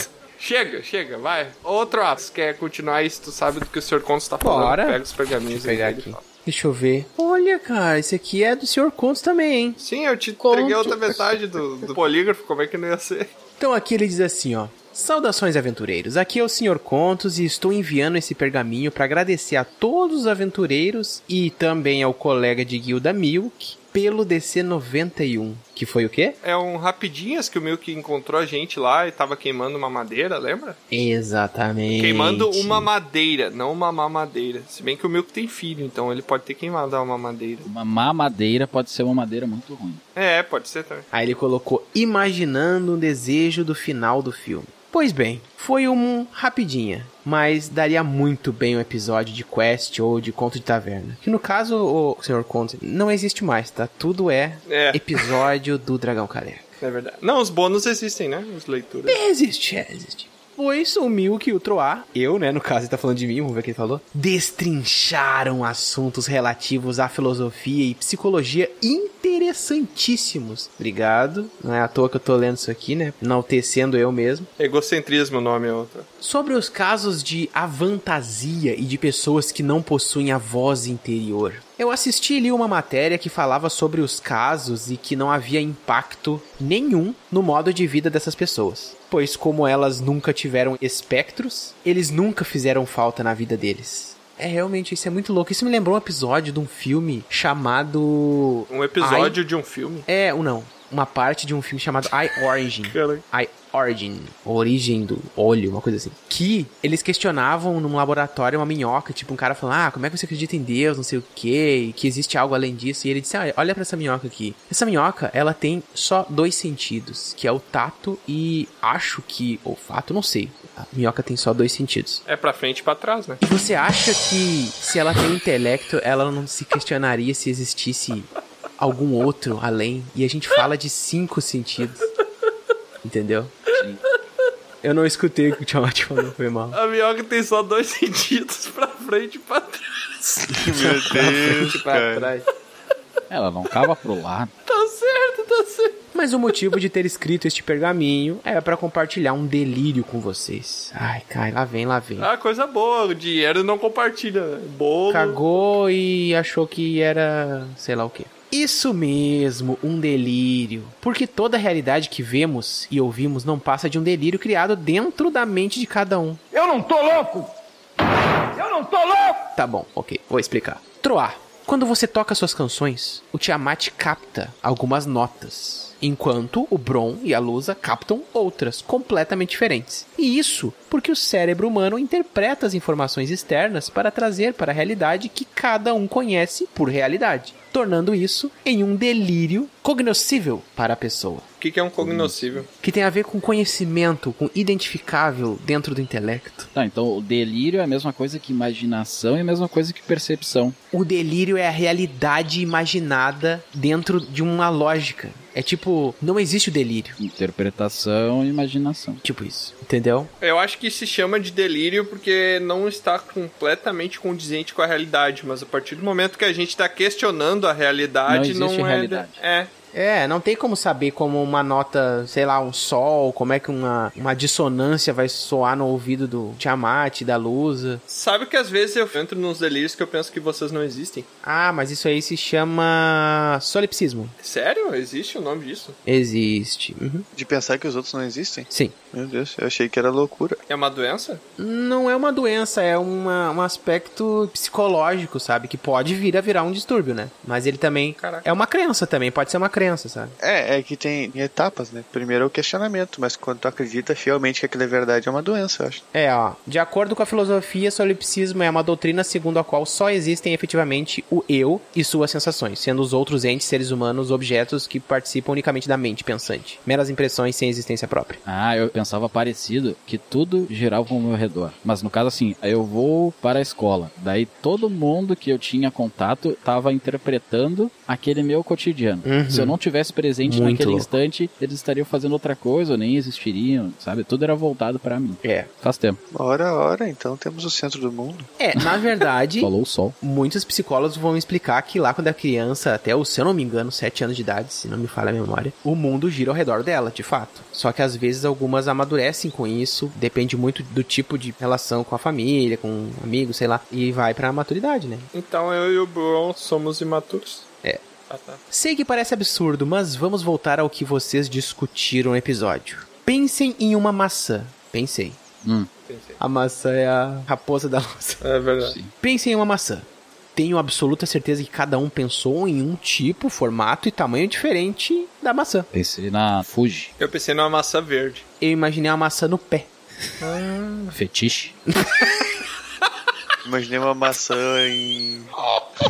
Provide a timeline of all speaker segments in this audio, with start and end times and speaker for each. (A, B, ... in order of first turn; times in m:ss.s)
0:00.4-0:06.2 A
0:04.4-0:09.8 B
0:09.8-0:13.3 A
0:10.4-0:11.2 C
0:13.6-0:26.4 B
0:26.4-0:30.8 A
0:30.9-0:32.9 B
0:31.9-0:37.7 A
0:37.6-0:40.0 C
0:40.2-0:41.0 A
0:41.1-0:56.7 B
0:54.7-0:55.4 A
0:56.8-0:59.2 A
0:59.1-1:14.5 B
1:14.6-1:16.1 A
1:16.2-1:39.4 B
1:38.7-1:40.0 A
1:40.1-2:02.2 B
1:42.9-1:43.2 A
2:02.2-2:03.4 A
2:03.4-2:12.0 B
2:13.0-2:13.5 B
2:13.7-2:14.0 C
2:14.8-2:16.8 B
2:16.7-2:20.8 A
2:20.5-2:22.3 D
2:20.7-2:22.4 B
2:23.3-2:24.5 C
2:24.6-2:26.0 A
2:26.1-2:32.3 B
2:32.2-2:35.4 A
2:35.1-2:46.4 B
2:46.5-2:47.5 E
2:48.5-2:49.5 E
2:49.6-3:11.4 B
3:11.6-3:12.7 A
3:12.0-3:12.6 C
3:12.8-3:16.7 B
3:16.7-3:20.8 C
3:20.9-3:27.2 B
3:27.2-3:29.2 C
3:29.2-3:30.3 B
3:30.4-3:39.7 A
3:38.3-3:39.4 C
3:39.9-3:48.0 B
3:48.1-3:51.3 A
3:51.4-3:54.3 B
3:54.4-3:56.0 A
3:56.0-3:57.2 B
3:57.3-4:00.6 D
3:58.7-3:58.9 B
4:00.7-4:01.4 A
4:01.6-4:10.4 B
4:08.2-4:08.4 A
4:10.4-4:16.0 D
4:16.1-4:28.4 B
4:28.4-4:46.2 C
4:39.2-4:39.7 B
4:40.4-4:41.1 B
4:45.4-4:45.7 B
4:46.3-4:48.5 D
4:48.6-5:05.3 B
4:49.6-4:50.2 C
5:05.3-5:07.6 A
5:08.3-5:08.6 A
5:08.7-5:15.4 B
5:15.6-5:15.9 C
5:16.1-5:16.4 A
5:16.4-5:18.4 B
5:18.4-5:19.0 A
5:18.8-5:19.1 C
5:19.2-5:25.9 B
5:25.9-5:27.1 C
5:27.2-5:28.4 A
5:28.6-5:29.9 B
5:30.4-5:31.2 A
5:31.1-5:31.8 C
5:33.6-5:35.5 D